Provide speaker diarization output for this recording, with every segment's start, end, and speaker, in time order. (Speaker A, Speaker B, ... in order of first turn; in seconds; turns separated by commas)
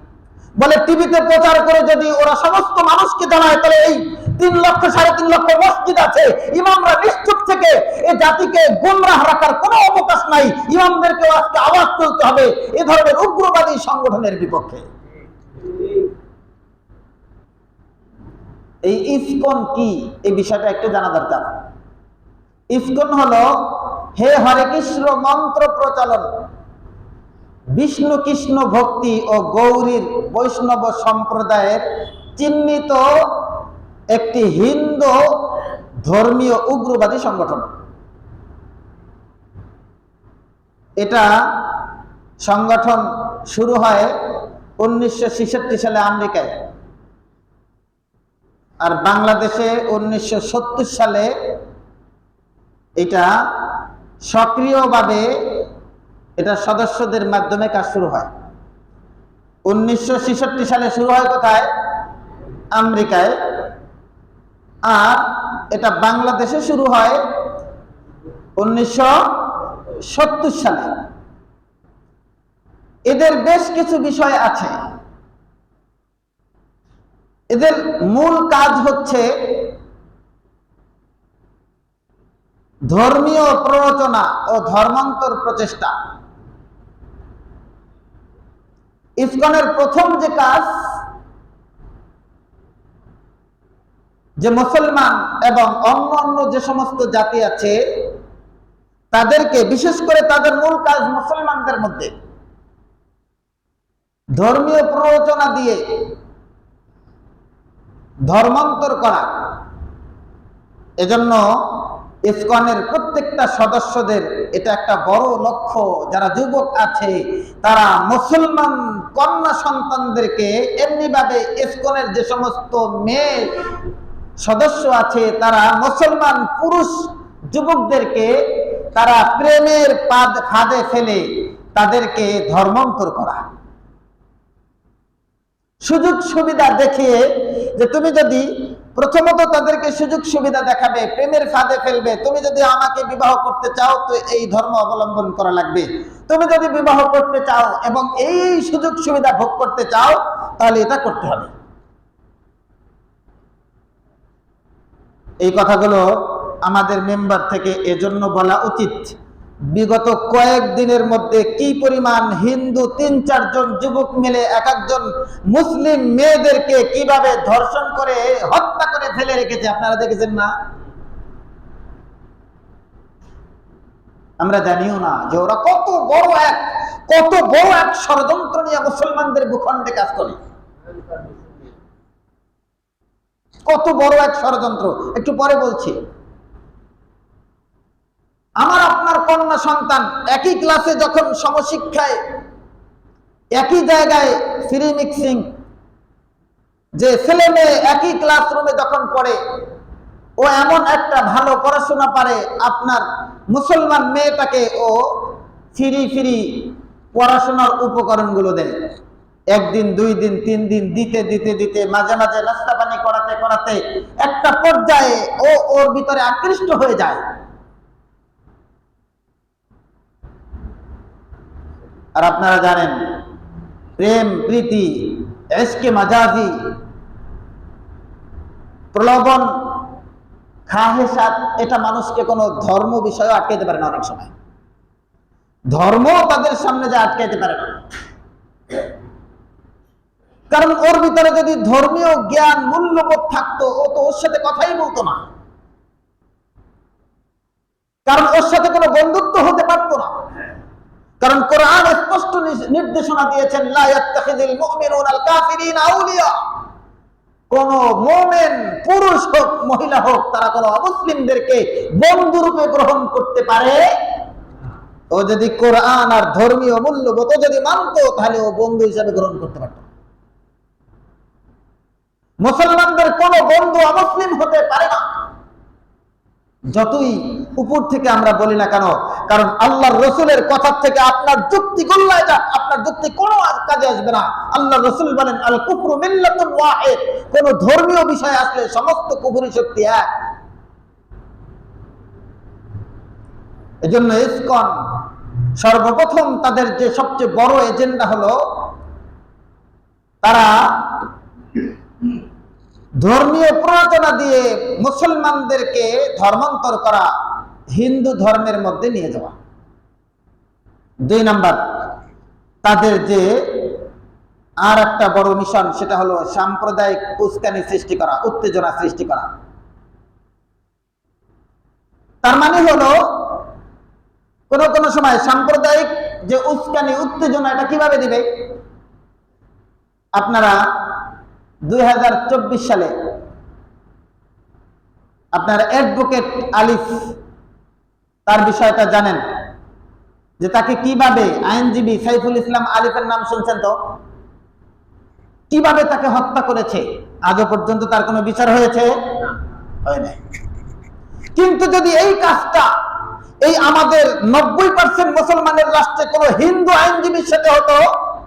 Speaker A: 0.6-14.8, Speaker A: 18.8-21.6, Speaker A: 22.7-26.3, Speaker A: 27.7-31.8, Speaker A: 32.3-33.6, Speaker A: 34.1-37.7, Speaker A: 41.0-41.8, Speaker A: 42.4-44.1, Speaker A: 44.8-46.6, Speaker A: 48.8-51.3, Speaker A: 53.0-55.7, Speaker A: 56.4-58.3, Speaker A: 59.7-61.7, Speaker A: 62.7-63.3, Speaker A: 64.8-67.2, Speaker A: 68.6-70.9, Speaker A: 73.1-74.7, Speaker A: 77.5-79.7, Speaker A: 82.9-85.9, Speaker A: 89.2-91.0, Speaker A: 94.4-98.1, Speaker A: 99.1-102.1, Speaker A: 104.4-105.8, Speaker A: 108.3-109.3, Speaker A: 111.0-123.7, Speaker A: 124.4-133.4, Speaker A: 135.8-151.5, Speaker A: 155.4-159.1, Speaker A: 159.7-170.5, Speaker A: 174.4-180.4, Speaker A: 183.7-185.9, Speaker A: 188.6-192.2, Speaker A: 193.6-195.5, Speaker A: 197.0-199.4, Speaker A: 200.4-208.9, Speaker A: 209.5-217.2, Speaker A: 222.2-222.9, Speaker A: 224.0-226.7, Speaker A: 228.9-229.9, Speaker A: 230.7-234.3, Speaker A: 235.7-237.8, Speaker A: 240.5-245.2, Speaker A: 248.1-250.1, Speaker A: 251.2-256.4, Speaker A: 257.5-263.8, Speaker A: 265.1-269.9, Speaker A: 272.4-275.2, Speaker A: 276.7-290.1, Speaker A: 293.8-294.7, Speaker A: 295.6-298.7, Speaker A: 300.2-301.1, Speaker A: 303.0-307.1, Speaker A: 307.7-309.3, Speaker A: 311.1-311.9, Speaker A: 312.6-313.8, Speaker A: 314.6-319.3, Speaker A: 322.2-323.4, Speaker A: 324.5-328.2, Speaker A: 330.1-331.0, Speaker A: 331.7-332.9, Speaker A: 335.3-337.1, Speaker A: 338.2-339.2, Speaker A: 340.4-343.8, Speaker A: 345.5-349.3, Speaker A: 349.8-350.2, Speaker A: 351.3-352.7, Speaker A: 353.4-357.8